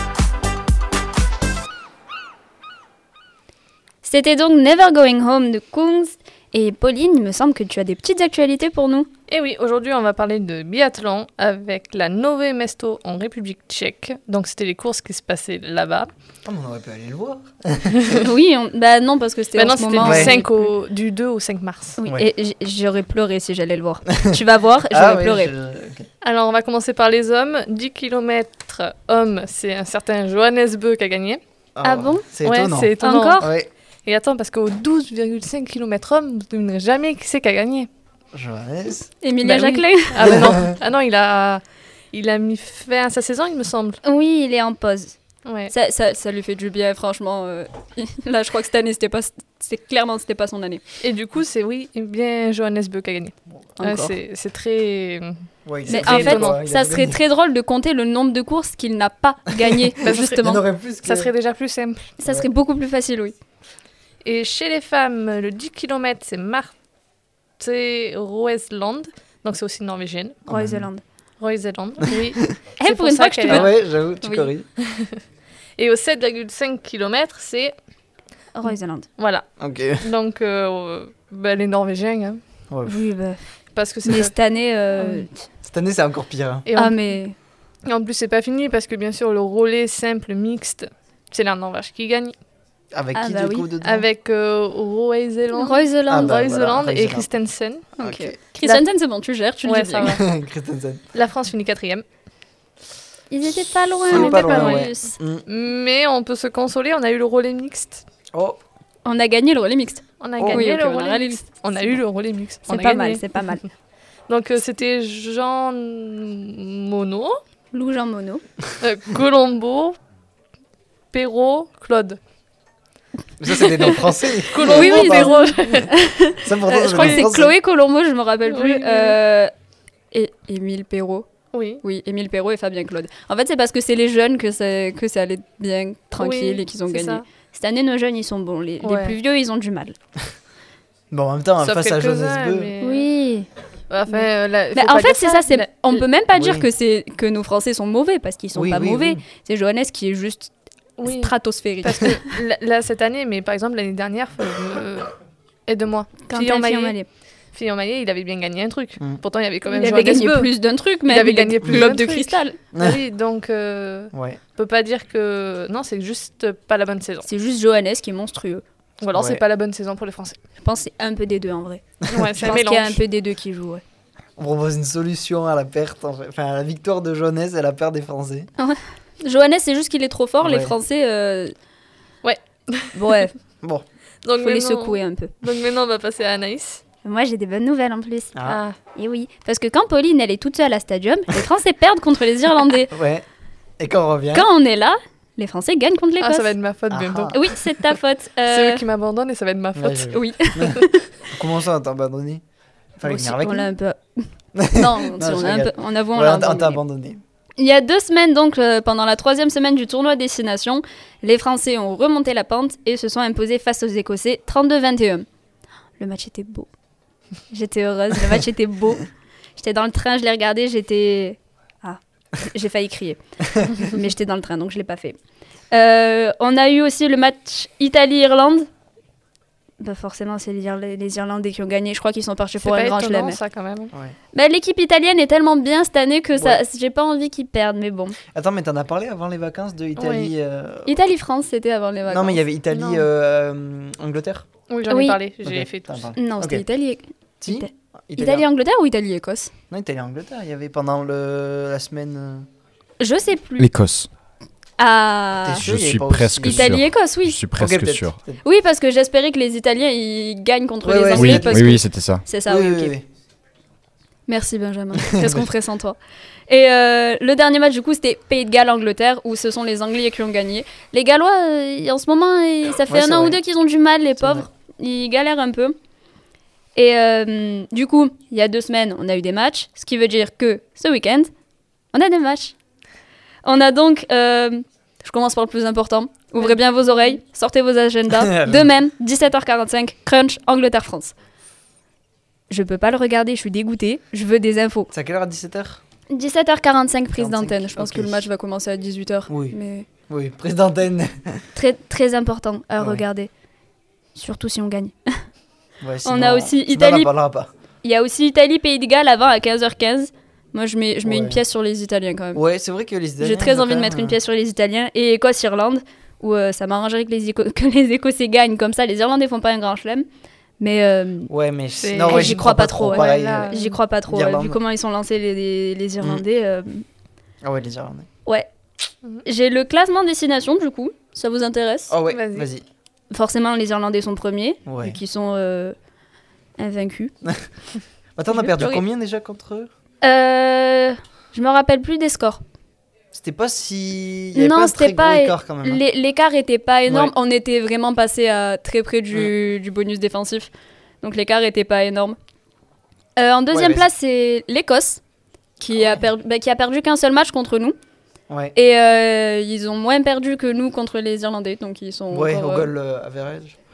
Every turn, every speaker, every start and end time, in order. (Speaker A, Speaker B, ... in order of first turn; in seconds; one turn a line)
Speaker A: 4.0-9.1
Speaker B: 9.3-16.1
Speaker C: 16.4-18.2
Speaker B: 17.9-18.2
Speaker A: 18.2-20.7
Speaker B: 19.6-22.0
Speaker C: 20.0-20.4
Speaker A: 22.0-25.5
Speaker C: 24.1-26.1
Speaker B: 26.2-31.4
Speaker C: 31.8-33.7
Speaker A: 31.8-32.2
Speaker B: 32.4-33.5
Speaker A: 33.0-33.5
Speaker B: 34.1-37.9
Speaker C: 38.3-39.1
Speaker A: 39.2-40.4
Speaker B: 39.4-44.0
Speaker C: 40.2-40.7
Speaker A: 44.0-45.2
Speaker B: 45.5-45.7
Speaker A: 45.7-50.8
Speaker B: 51.0-55.4
Speaker A: 53.8-54.1
Speaker C: 55.7-57.2
Speaker B: 55.9-56.6
Speaker A: 55.9-60.6
Speaker B: 60.0-62.1
Speaker C: 60.3-61.3
Speaker A: 62.2-63.4
Speaker C: 62.2-62.5
Speaker B: 64.2-66.8
Speaker B: 67.6-70.4
Speaker C: 70.5-70.9
Speaker A: 70.5-71.0
Speaker B: 71.4-73.7
Speaker A: 72.8-74.5
Speaker C: 73.5-74.7
Speaker B: 74.8-75.2
Speaker B: 75.8-77.7
Speaker A: 78.5-79.1
Speaker B: 79.2-82.4
Speaker C: 79.6-80.1
Speaker C: 82.7-83.0
Speaker A: 82.9-83.5
Speaker B: 83.8-84.3
Speaker A: 84.1-85.5
Speaker B: 85.0-85.3
Speaker C: 85.6-86.7
Speaker B: 86.7-87.0
Speaker A: 86.8-87.3
Speaker B: 87.8-92.4
Speaker C: 92.9-94.1
Speaker A: 93.2-93.7
Speaker B: 93.8-97.9
Speaker A: 95.5-96.4
Speaker C: 96.1-97.3
Speaker A: 98.0-100.2
Speaker C: 98.0-98.4
Speaker B: 99.7-100.2
Speaker C: 100.0-101.0
Speaker B: 101.1-102.0
Speaker A: 103.3-105.1
Speaker C: 104.1-105.4
Speaker B: 104.1-104.9
Speaker B: 105.5-108.0
Speaker C: 108.3-108.6
Speaker A: 109.0-111.5
Speaker B: 110.2-113.5
Speaker C: 110.4-110.7
Speaker A: 112.7-113.6
Speaker B: 114.3-117.4
Speaker A: 117.7-118.4
Speaker B: 118.8-120.0
Speaker B: 121.1-122.2
Speaker C: 123.4-125.4
Speaker B: 123.5-125.9
Speaker A: 124.6-129.5
Speaker C: 126.4-127.5
Speaker B: 126.9-127.3
Speaker B: 128.5-129.2
Speaker A: 130.1-131.3
Speaker B: 131.5-131.8
Speaker A: 131.8-139.9
Speaker B: 136.2-137.2
Speaker B: 138.8-139.2
Speaker C: 141.1-142.7
Speaker B: 141.6-143.1
Speaker A: 142.8-143.5
Speaker B: 143.9-146.0
Speaker A: 144.1-150.5
Speaker C: 146.3-146.7
Speaker C: 148.5-149.2
Speaker B: 151.0-155.1
Speaker A: 151.0-152.3
Speaker B: 155.7-157.0
Speaker A: 156.3-157.1
Speaker B: 157.5-160.5
Speaker A: 159.7-162.6
Speaker B: 161.1-167.3
Speaker C: 161.7-161.9
Speaker C: 162.7-163.0
Speaker C: 164.1-164.4
Speaker A: 167.2-168.6
Speaker B: 169.0-170.4
Speaker C: 169.1-169.4
Speaker A: 170.6-173.8
Speaker B: 172.1-173.0
Speaker C: 174.4-178.5
Speaker A: 178.6-181.6
Speaker C: 180.4-180.7
Speaker B: 182.2-183.2
Speaker A: 182.9-183.3
Speaker B: 184.2-186.8
Speaker A: 184.4-185.3
Speaker A: 187.0-192.9
Speaker C: 188.3-188.6
Speaker B: 188.5-188.8
Speaker C: 192.9-193.2
Speaker C: 193.8-194.5
Speaker A: 194.3-196.5
Speaker B: 196.2-197.5
Speaker C: 196.9-197.4
Speaker A: 197.3-198.8
Speaker B: 198.5-200.2
Speaker C: 199.8-202.4
Speaker A: 200.1-201.1
Speaker C: 203.0-203.7
Speaker A: 203.0-206.8
Speaker C: 204.6-207.2
Speaker A: 207.6-215.3
Speaker A: 216.0-216.7
Speaker A: 217.5-219.1
Speaker A: 219.6-225.2
Speaker A: 225.7-228.7
Speaker A: 229.8-233.4
Speaker B: 232.6-233.9
Speaker A: 234.3-238.2
Speaker C: 238.3-240.9
Speaker B: 240.0-240.3
Speaker A: 240.9-242.4
Speaker C: 242.1-244.5
Speaker B: 242.7-243.1
Speaker B: 244.7-246.1
Speaker A: 244.9-245.2
Speaker C: 245.4-246.7
Speaker A: 246.2-249.5
Speaker C: 247.4-248.5
Speaker C: 249.7-252.5
Speaker A: 253.0-253.7
Speaker D: 253.6-254.1
Speaker A: 254.8-255.7
Speaker C: 255.4-256.9
Speaker D: 255.6-258.2
Speaker A: 256.4-257.5
Speaker C: 257.5-258.4
Speaker A: 258.4-262.9
Speaker C: 260.8-261.9
Speaker D: 261.1-262.2
Speaker C: 262.4-263.1
Speaker A: 264.3-266.0
Speaker C: 265.0-265.5
Speaker A: 266.5-275.8
Speaker C: 272.9-273.4
Speaker C: 274.2-274.5
Speaker A: 276.8-281.3
Speaker A: 281.9-282.6
Speaker A: 283.4-291.1
Speaker C: 288.1-288.7
Speaker A: 292.5-294.9
Speaker C: 294.9-295.8
Speaker A: 296.1-299.9
Speaker C: 297.2-298.2
Speaker C: 299.3-299.6
Speaker C: 300.1-301.4
Speaker A: 301.6-303.3
Speaker A: 304.1-305.2
Speaker C: 305.8-307.5
Speaker A: 306.0-307.1
Speaker A: 307.8-312.4
Speaker C: 311.1-311.4
Speaker C: 312.3-314.2
Speaker A: 313.2-320.1
Speaker A: 320.6-321.3
Speaker C: 321.3-323.5
Speaker B: 321.8-323.8
Speaker A: 322.0-326.8
Speaker C: 324.1-324.6
Speaker C: 327.4-328.1
Speaker A: 328.2-328.5
Speaker A: 329.2-331.9
Speaker C: 331.9-332.6
Speaker B: 332.1-332.5
Speaker A: 333.1-335.8
Speaker C: 334.7-335.0
Speaker A: 336.6-337.1
Speaker C: 338.2-339.7
Speaker B: 338.5-338.8
Speaker A: 340.0-342.4
Speaker C: 343.1-345.8
Speaker A: 344.4-350.5
Speaker C: 346.9-347.1
Speaker A: 351.0-352.2
Speaker A: 353.2-355.0
Speaker C: 353.5-353.9
Speaker A: 355.6-357.8
Speaker C: 358.3-358.6
Speaker A: 358.6-362.7
Speaker C: 362.1-363.6